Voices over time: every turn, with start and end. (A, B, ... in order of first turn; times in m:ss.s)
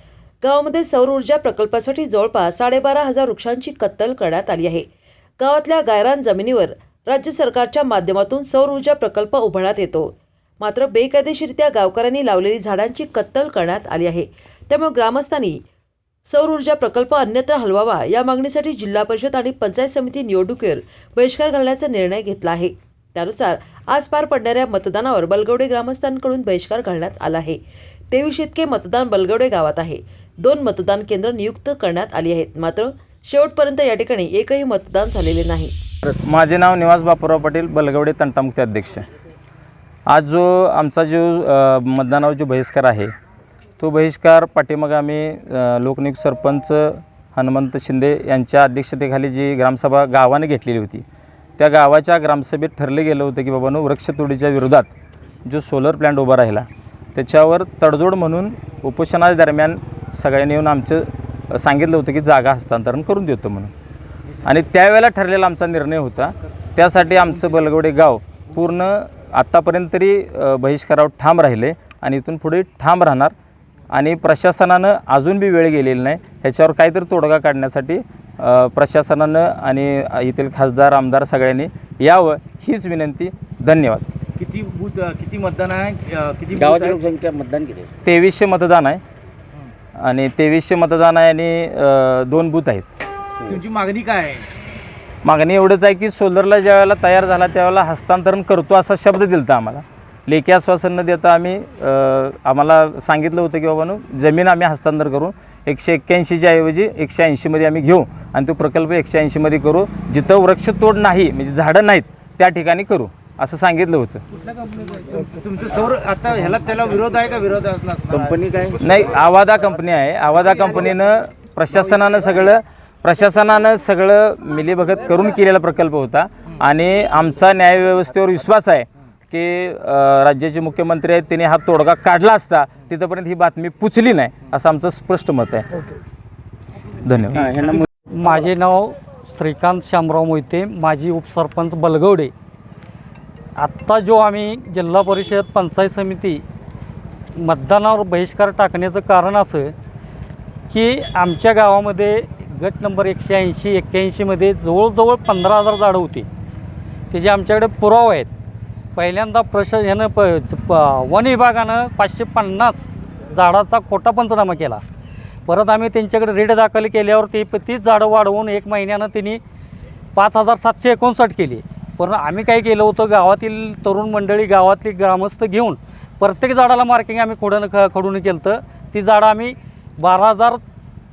0:00.4-0:04.9 A
0:05.4-0:15.6 A
0:16.3-0:27.6 A
0:28.1-0:35.7 A
0:36.1-0:39.1 B
0:40.1-0:43.1 B
0:43.8-0:51.0 B
0:51.6-0:54.9 B
0:55.4-1:03.7 B
1:04.4-1:13.3 B
1:13.9-1:24.1 B
1:24.4-1:27.0 C
1:26.5-1:27.9 D
1:28.0-1:29.0 B
1:30.0-1:32.9 B
1:33.5-1:34.5 C
1:35.2-1:54.2 B
1:54.7-1:58.4 C
1:58.1-1:59.1 D
1:58.8-2:15.7 B
2:17.0-2:17.5 B
2:17.4-2:17.9 D
2:18.1-2:22.3 E
2:23.6-2:26.4 E
2:27.4-2:29.7 E
2:30.7-2:36.3 E
2:37.1-2:38.3 E
2:39.0-2:44.8 E
2:45.5-2:49.4 E
2:50.2-3:00.6 E